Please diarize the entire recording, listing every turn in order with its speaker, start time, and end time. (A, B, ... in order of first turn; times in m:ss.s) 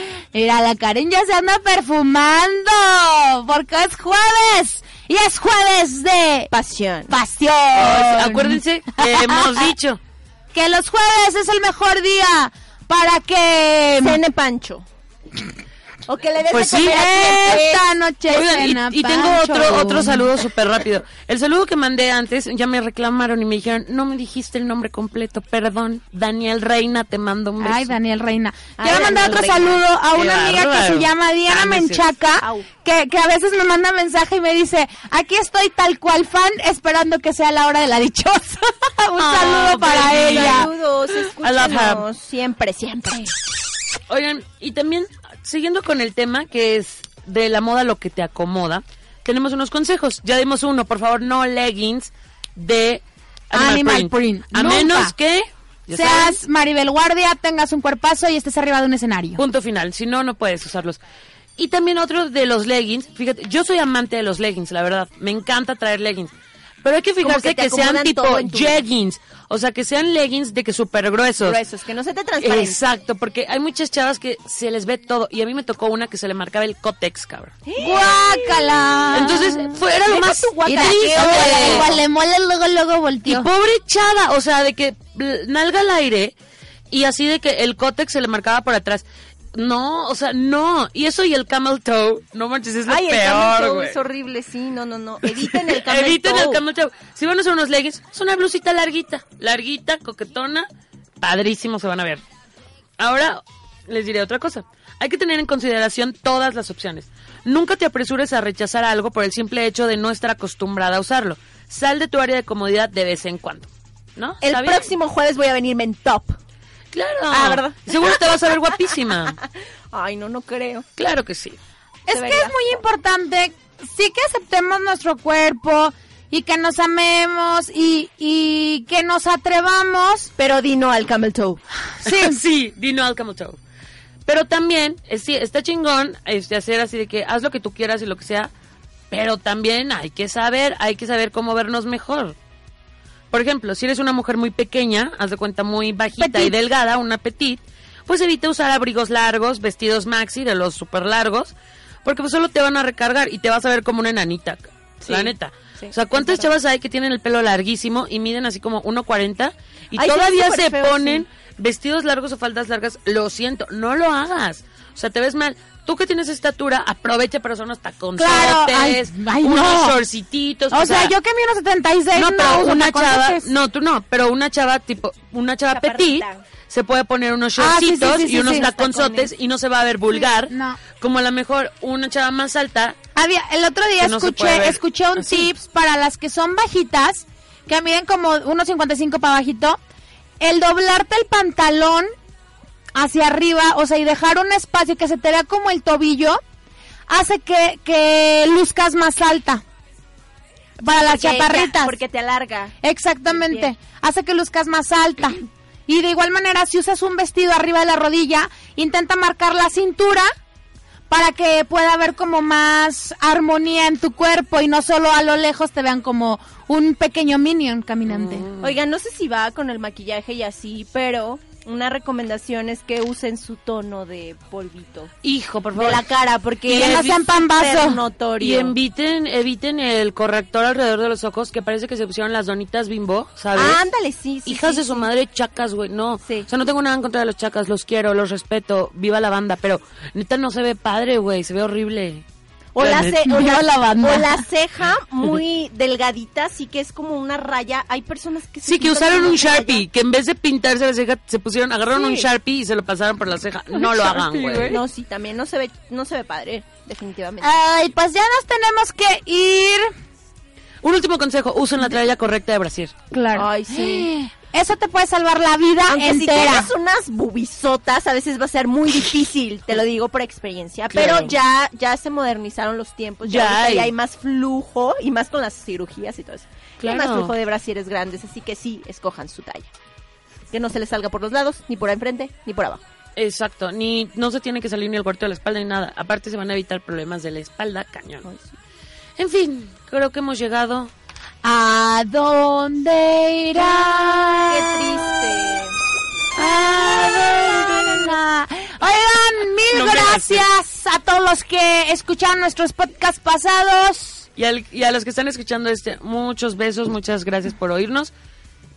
0:00.3-0:06.5 A
0:06.5-0:07.1 B
0:07.1-0:09.7 A
0:07.8-0:10.0 C
0:10.5-0:14.2 A
0:14.0-0:14.9 B
0:16.1-0:17.8 B
0:16.5-0:17.6 C
0:16.8-0:20.3 A
0:18.3-0:27.9 C
0:27.6-0:40.7 A
0:28.8-0:29.8 B
0:30.1-0:32.1 C
0:32.4-0:32.7 B
0:39.2-0:40.7 C
0:40.2-0:43.3 B
0:41.3-0:42.0 C
0:44.1-0:56.4 C
0:53.5-0:55.1 A
0:55.9-0:59.4 A
0:59.4-1:01.0 C
1:01.6-1:06.3 C
1:06.8-1:11.6 C
1:07.2-1:08.8 B
1:11.4-1:12.8 B
1:12.4-1:17.5 C
1:17.7-1:19.4 B
1:17.8-1:19.8 A
1:19.1-1:21.9 C
1:20.0-1:22.0 B
1:20.6-1:23.5 A
1:23.3-1:26.3 C
1:26.9-1:34.0 C
1:32.9-1:36.6 B
1:35.3-1:40.7 C
1:41.2-1:42.2 C
1:43.0-1:54.9 C
1:54.4-1:56.4 B
1:56.9-1:59.4 C
1:57.3-1:58.4 B
1:59.9-2:00.9 B
2:01.0-2:01.6 C
2:02.1-2:10.3 A
2:02.1-2:02.8 B
2:10.4-2:11.6 B
2:12.0-2:12.4 A
2:12.0-2:13.6 C
2:14.3-2:18.5 C
2:19.1-2:22.4 C
2:23.3-2:31.5 C
2:32.0-2:51.2 C
2:35.0-2:36.5 B
2:40.0-2:41.2 B
2:48.2-2:50.0 A
2:50.7-2:53.5 A
2:52.2-3:03.0 C
2:55.7-2:56.4 B
2:57.6-2:58.7 A
2:58.4-2:59.3 B
3:00.2-3:00.8 A
3:03.2-3:09.8 A
3:04.0-3:05.5 C
3:10.4-3:12.1 A
3:13.0-3:16.4 A
3:17.1-3:19.6 A
3:20.8-3:21.9 A
3:20.9-3:22.8 B
3:22.8-3:30.3 A
3:23.3-3:23.7 B
3:31.1-3:38.5 A
3:38.1-3:38.8 C
3:38.6-3:45.1 B
3:45.2-3:46.1 C
3:45.8-3:48.8 B
3:46.7-3:48.0 A
3:46.7-3:47.1 C
3:48.4-3:53.8 C
3:53.6-3:55.1 B
3:54.5-4:02.2 C
4:02.8-4:09.8 B
4:02.8-4:03.4 C
4:03.3-4:04.4 A
4:08.6-4:14.8 C
4:12.0-4:12.2 B
4:13.7-4:14.8 A
4:14.7-4:17.5 B
4:17.4-4:19.9 A
4:20.8-4:22.9 C
4:23.1-4:26.7 A
4:23.3-4:24.1 B
4:25.9-4:39.7 B
4:30.9-4:31.4 C
4:33.2-4:33.9 C
4:36.8-4:37.3 C
4:40.5-4:42.8 B
4:43.2-4:48.3 C
4:49.2-4:50.9 C
4:51.4-4:54.6 A
4:53.9-4:54.4 C
4:54.5-4:55.8 B
4:56.4-4:58.2 C
4:57.4-5:04.2 A
4:59.7-5:00.4 C
5:04.4-5:08.1 C